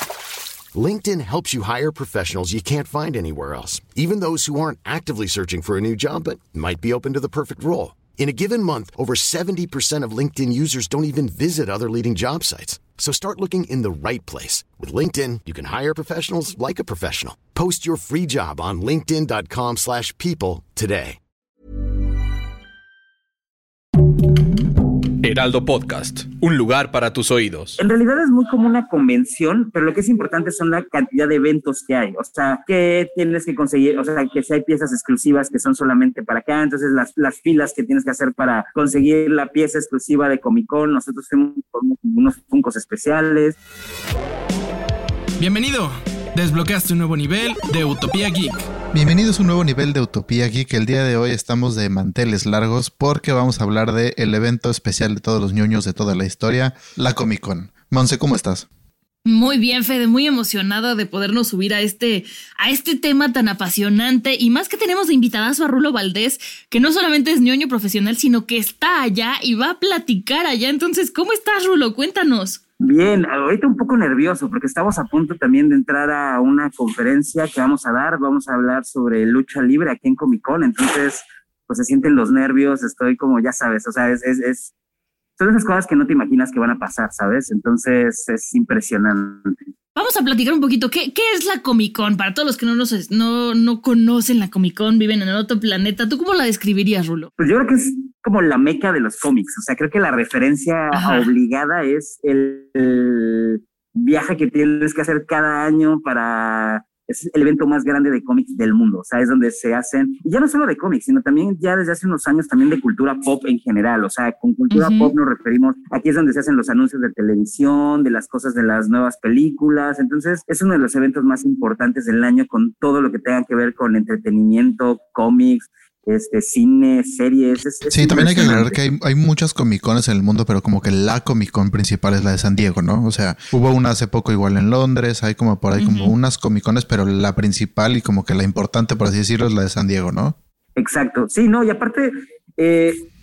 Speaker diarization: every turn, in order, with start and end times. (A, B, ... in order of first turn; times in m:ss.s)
0:00.7-0:21.2 A
0:25.2-0:27.8 B
0:27.8-0:43.6 C
0:45.4-0:48.6 D
0:48.9-0:58.7 E
0:59.2-1:12.6 F
1:12.8-1:24.7 C
1:25.4-1:29.5 C
1:30.0-1:37.3 F
1:37.4-2:08.8 C
1:40.9-1:41.3 F
1:54.7-1:55.1 F
2:07.9-2:20.4 E
2:15.8-2:16.1 F
2:20.8-2:23.1 C